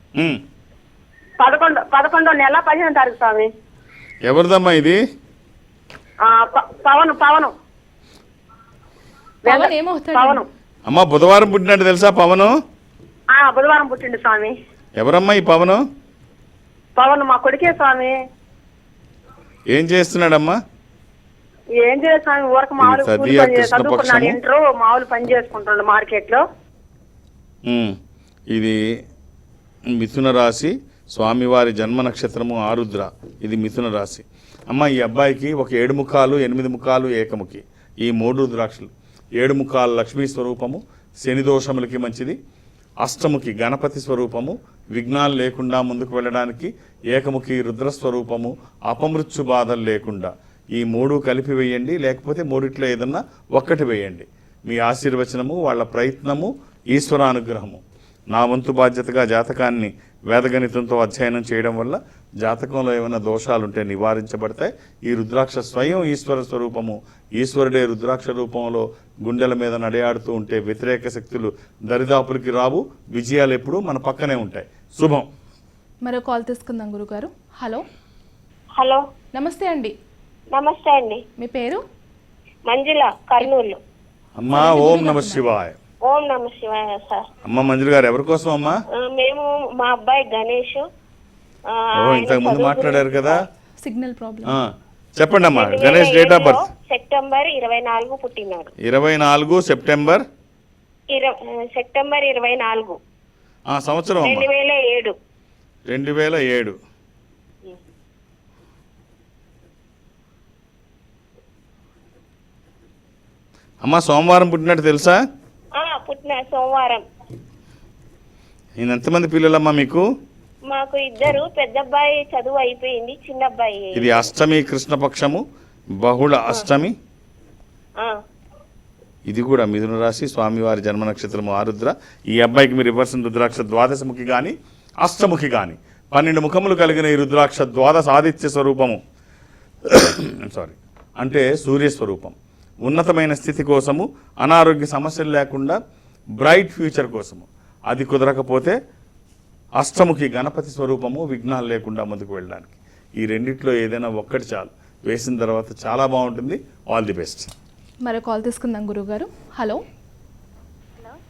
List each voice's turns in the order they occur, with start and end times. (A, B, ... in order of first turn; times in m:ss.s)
0:00.2-0:00.4 A
0:01.4-0:03.5 B
0:04.2-0:05.0 A
0:06.2-0:07.5 B
0:09.4-0:10.4 C
0:09.4-0:10.4 B
0:10.9-0:12.5 A
0:13.3-0:14.5 B
0:15.0-0:15.8 A
0:17.0-0:18.2 B
0:19.7-0:20.6 A
0:21.8-0:26.4 B
0:22.8-0:24.4 A
0:27.6-0:28.0 A
0:28.5-0:28.8 A
0:29.9-0:42.4 A
0:43.0-1:15.3 A
1:16.0-1:17.8 C
1:18.8-1:19.0 D
1:19.3-1:19.9 C
1:20.5-1:21.2 D
1:21.4-1:21.8 C
1:22.7-1:23.8 D
1:24.4-1:25.8 A
1:24.5-1:25.4 C
1:26.0-1:27.3 D
1:27.4-1:28.8 A
1:28.9-1:30.8 D
1:31.7-1:33.4 D
1:32.0-1:33.4 A
1:33.8-1:34.5 C
1:34.5-1:36.7 A
1:35.5-1:38.7 D
1:38.8-1:40.2 A
1:41.1-1:43.0 D
1:43.7-1:44.5 A
1:44.2-1:45.1 D
1:45.9-1:46.8 A
1:53.8-1:55.2 A
1:55.8-1:57.0 D
1:58.8-2:00.0 A
2:00.7-2:04.2 D
2:03.9-2:05.4 A
2:06.0-2:07.0 A
2:09.3-2:19.0 A
2:19.8-2:25.8 A
2:26.4-2:28.8 A
2:29.8-2:37.5 A
2:38.0-2:39.8 C